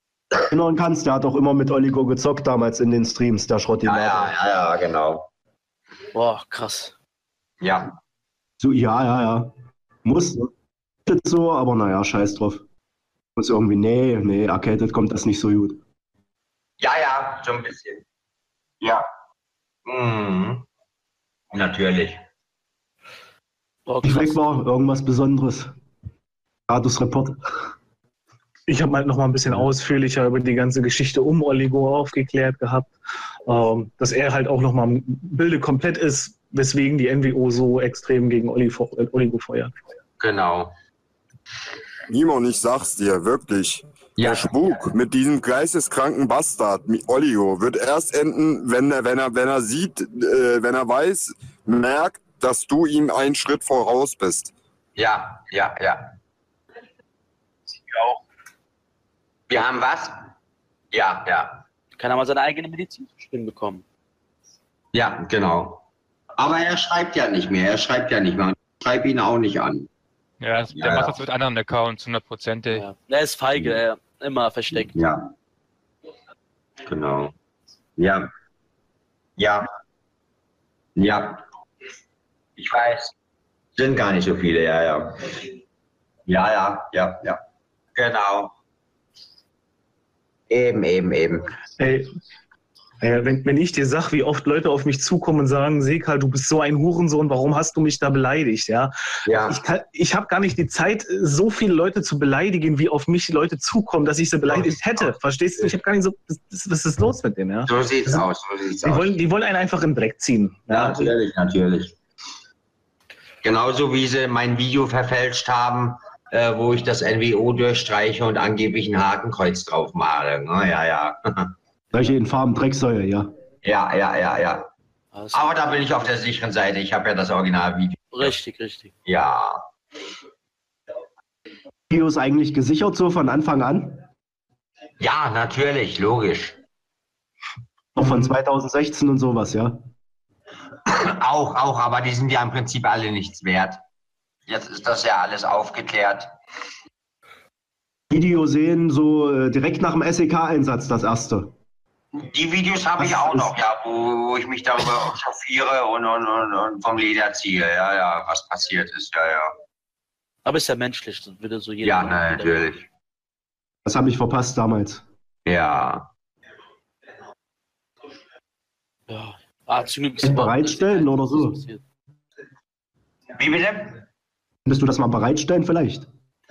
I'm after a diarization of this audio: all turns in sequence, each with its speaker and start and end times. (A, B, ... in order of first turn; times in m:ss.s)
0:00.5-0:04.3 A
0:03.8-0:05.3 B
0:06.1-0:06.9 C
0:07.6-0:08.0 B
0:08.6-0:09.5 A
0:10.0-0:10.5 A
0:11.1-0:12.6 A
0:13.4-0:15.8 A
0:16.8-0:18.0 B
0:18.8-0:19.1 B
0:19.9-0:20.7 B
0:21.5-0:22.2 B
0:23.9-0:24.4 C
0:24.0-0:25.7 A
0:26.7-0:27.7 A
0:28.7-0:32.9 D
0:33.5-0:39.7 D
0:40.2-0:40.7 B
0:42.1-0:54.5 E
0:44.2-0:44.5 B
0:55.0-0:56.2 B
0:59.5-1:00.3 B
1:00.9-1:01.6 B
1:02.0-1:03.8 C
1:04.9-1:05.8 B
1:06.4-1:09.9 B
1:10.4-1:12.9 F
1:10.8-1:11.2 B
1:12.7-1:15.0 C
1:14.8-1:15.3 B
1:16.9-1:17.3 B
1:18.0-1:18.3 B
1:19.4-1:19.7 B
1:21.0-1:21.4 B
1:22.6-1:23.1 B
1:23.8-1:25.6 B
1:26.3-1:27.4 B
1:28.0-1:28.5 B
1:30.5-1:31.5 B
1:31.8-1:32.1 D
1:33.0-1:48.3 D
1:39.3-1:39.6 B
1:44.5-1:45.7 B
1:47.7-1:49.2 B
1:48.8-1:51.1 D
1:50.7-1:52.0 B
1:53.4-2:01.5 B
2:01.9-2:03.3 A
2:03.6-2:04.7 B
2:05.1-2:05.5 C
2:05.3-2:08.4 B
2:08.1-2:08.9 C
2:09.1-2:09.7 B
2:11.9-2:14.1 A
2:15.0-2:16.6 B
2:18.0-2:19.8 A
2:18.0-2:18.3 D
2:20.9-2:23.8 B
2:24.5-2:26.4 B
2:28.1-2:31.5 A
2:32.2-2:39.6 B
2:33.0-2:33.5 A
2:40.4-2:42.7 C
2:41.8-2:42.9 B
2:43.8-2:45.0 A
2:45.5-2:46.1 B
2:49.1-2:51.8 C
2:50.2-2:51.6 A
2:53.4-2:54.0 B
2:54.7-2:56.1 A